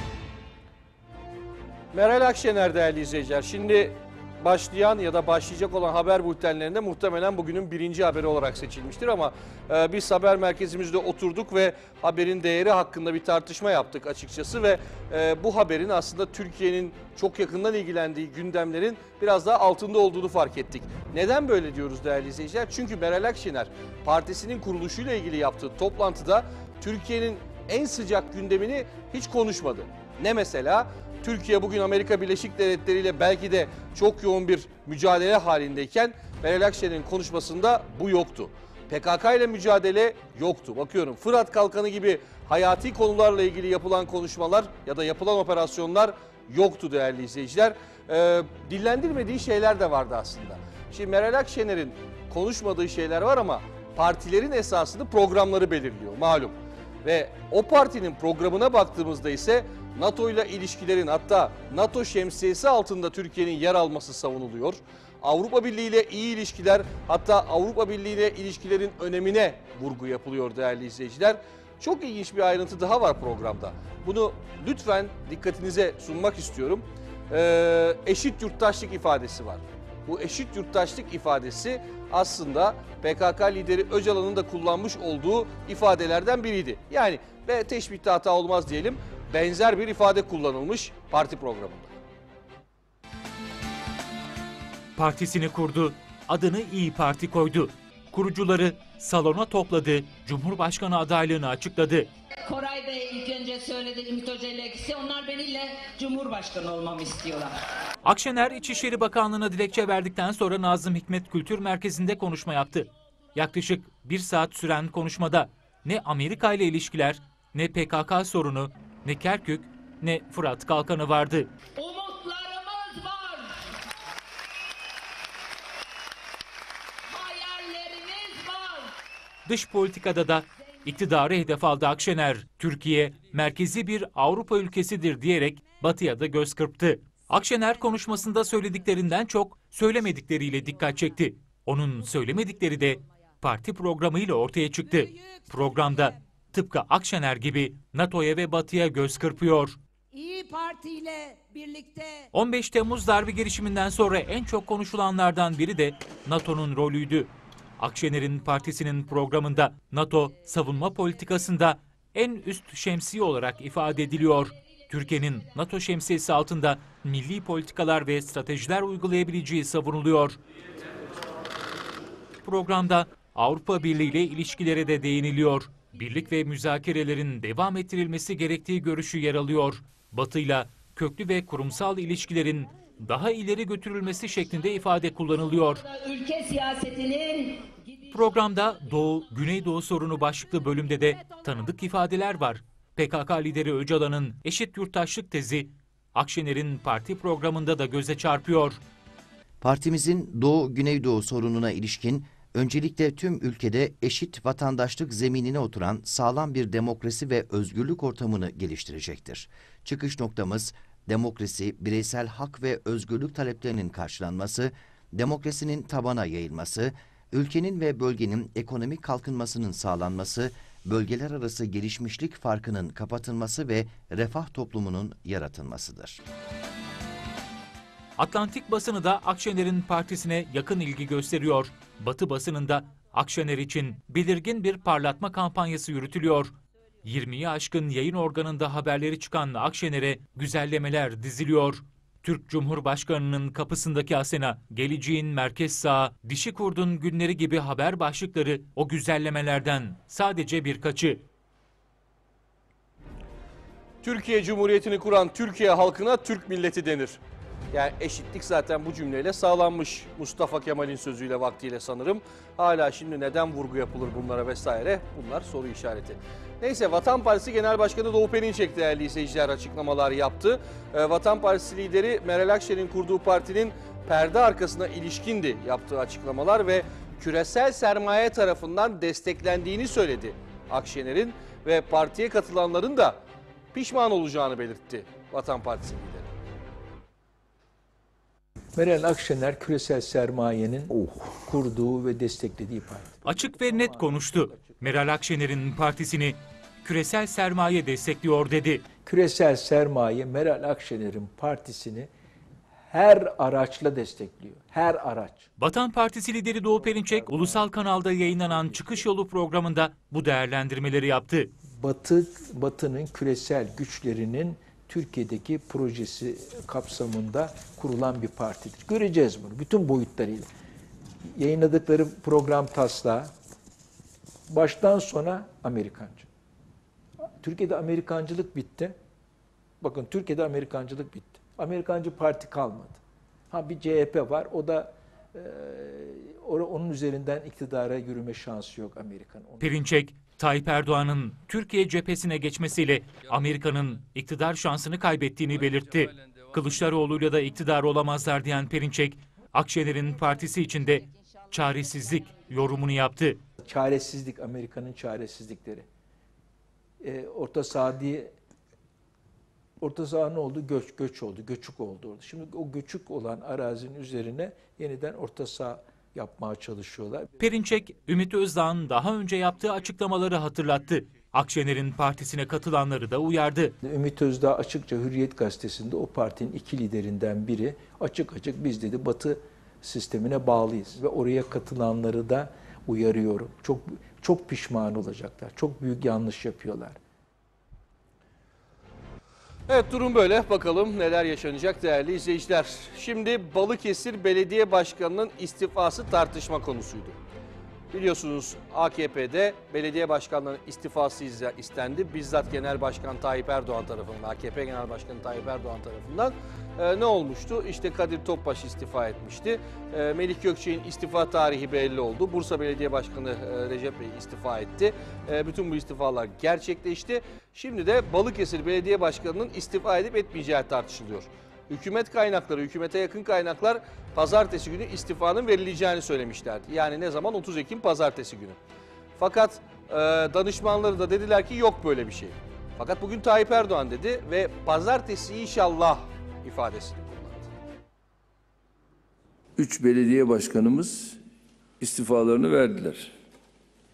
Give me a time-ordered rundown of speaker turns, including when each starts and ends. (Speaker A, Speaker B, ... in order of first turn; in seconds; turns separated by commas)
Speaker A: 1.9-91.9, Speaker B: 95.0-102.1, Speaker C: 102.5-107.5, Speaker B: 108.0-121.5, Speaker C: 121.8-123.4, Speaker C: 127.2-128.9, Speaker B: 129.5-149.8, Speaker C: 150.2-152.0, Speaker B: 152.3-170.4, Speaker B: 172.4-185.8, Speaker C: 185.8-187.8, Speaker B: 188.1-198.8, Speaker D: 199.6-226.2, Speaker B: 228.2-236.5, Speaker B: 237.0-251.2, Speaker A: 254.0-257.2, Speaker A: 257.7-283.2, Speaker A: 283.7-286.2, Speaker E: 288.8-295.1, Speaker B: 293.2-298.8, Speaker E: 298.9-302.1, Speaker E: 302.8-305.5, Speaker B: 305.6-311.5, Speaker E: 311.6-320.5, Speaker E: 321.3-323.3, Speaker E: 324.5-326.3, Speaker E: 327.4-328.9, Speaker E: 329.8-339.7, Speaker B: 339.6-353.4, Speaker E: 353.6-355.9, Speaker E: 357.0-358.3, Speaker E: 359.8-367.3, Speaker B: 367.4-373.8, Speaker E: 373.8-387.0, Speaker A: 389.7-397.2, Speaker A: 397.9-428.6, Speaker A: 429.2-437.5, Speaker F: 439.6-441.2, Speaker F: 441.8-443.1